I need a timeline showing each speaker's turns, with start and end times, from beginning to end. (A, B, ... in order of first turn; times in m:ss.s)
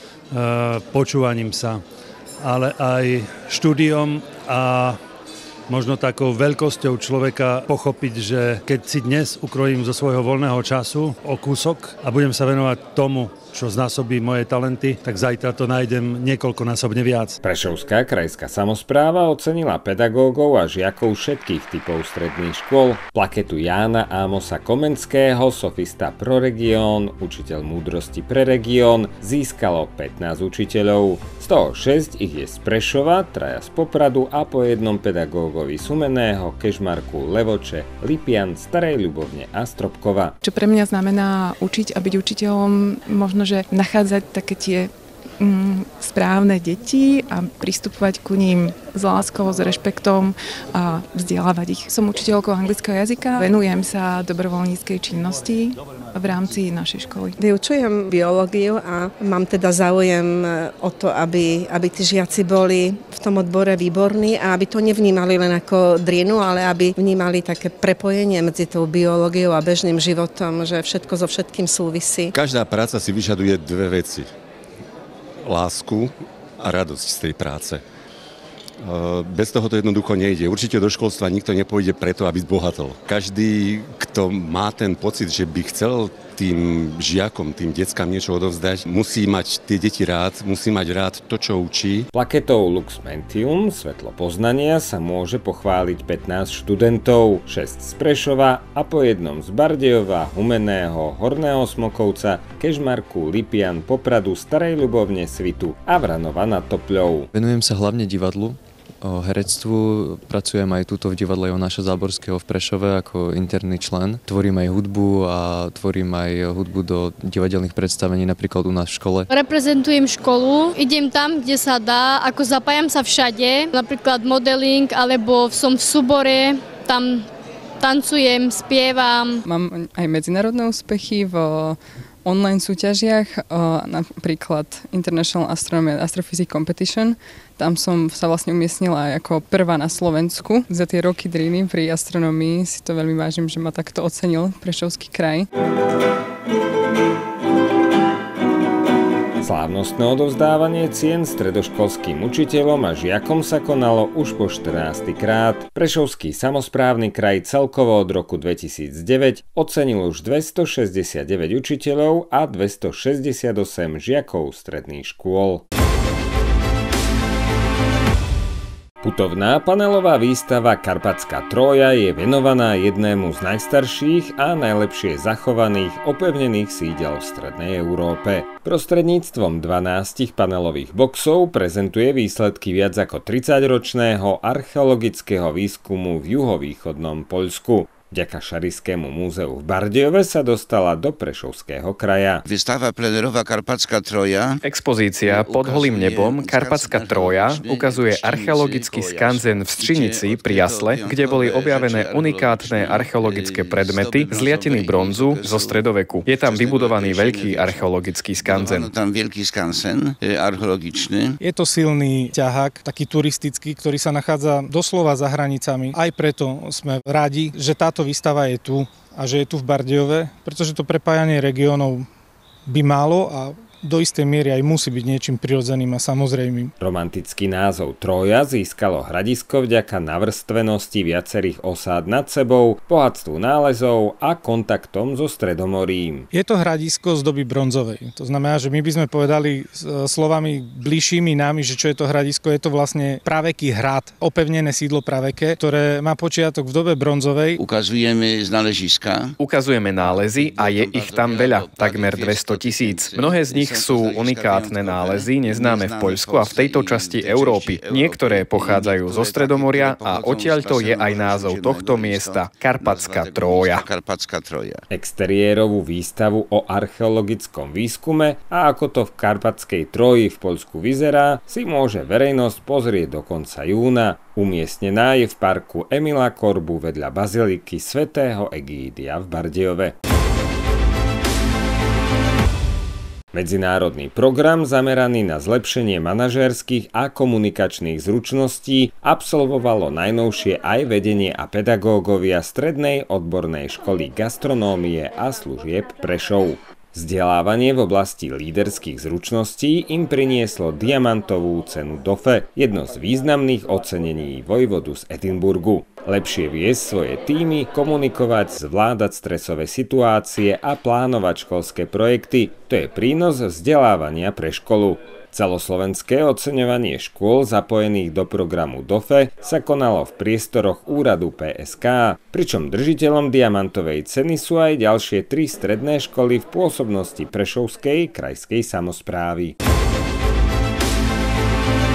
0:00.3-0:01.8 A
0:02.4-0:05.0 A
0:05.7-0:17.4 A
0:17.4-0:40.4 B
0:40.5-0:44.9 C
0:45.4-0:55.7 C
0:56.2-0:57.2 C
0:57.4-1:12.3 D
1:12.4-1:14.3 E
1:15.4-1:17.8 E
1:18.8-1:32.1 E
1:32.1-1:47.3 B
1:47.3-1:59.3 F
1:59.3-2:07.3 G
2:07.8-2:09.4 G
2:09.4-2:25.5 H
2:29.4-2:45.6 B
2:49.0-3:12.4 B
3:12.5-3:14.6 I
3:14.6-3:28.9 J
3:15.3-3:25.8 I
3:26.4-3:27.9 I
3:28.4-3:31.4 I
3:31.4-3:42.1 K
3:42.7-3:46.7 K
3:46.8-3:56.3 B
3:56.3-4:07.6 K
4:07.6-4:09.3 I
4:09.4-4:23.9 J
4:10.0-4:24.8 I
4:24.9-4:39.9 B
4:43.3-5:29.6 B